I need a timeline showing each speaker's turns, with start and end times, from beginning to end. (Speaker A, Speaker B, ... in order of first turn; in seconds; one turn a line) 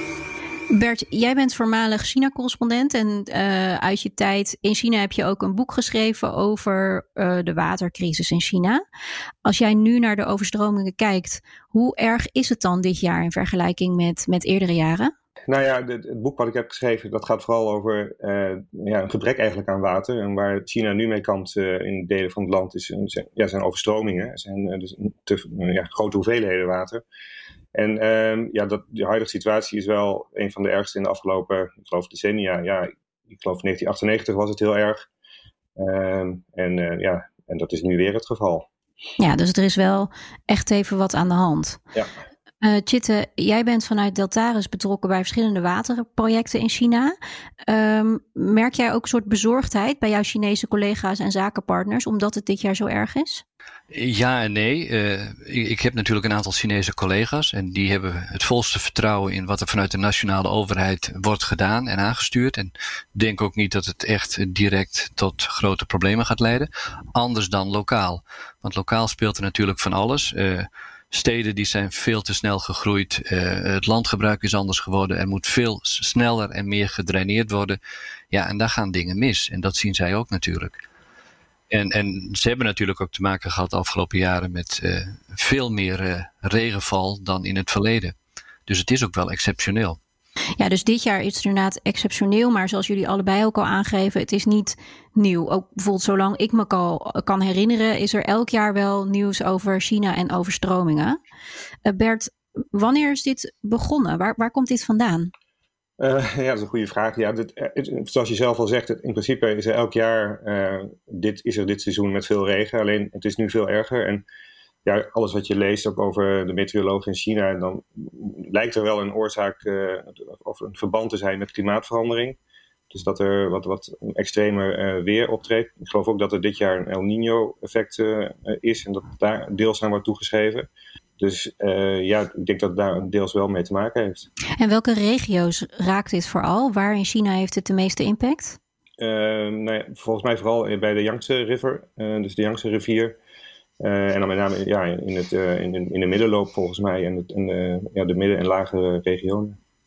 Speaker A: 0.7-8.8
Speaker A: 9.4-15.1
Speaker B: 15.5-27.0
Speaker B: 27.7-35.1
Speaker B: 35.8-38.7
Speaker A: 39.2-41.8
Speaker A: 42.6-53.4
Speaker C: 53.9-77.8
Speaker C: 78.3-80.8
Speaker C: 81.7-88.1
Speaker C: 88.7-90.0
Speaker A: 90.6-101.2
Speaker A: 101.8-105.3
Speaker B: 106.0-114.2
Speaker B: 114.8-122.4
Speaker B: 122.9-134.3
Speaker A: 134.6-138.6
Speaker B: 139.0-143.2
Speaker B: 143.8-149.6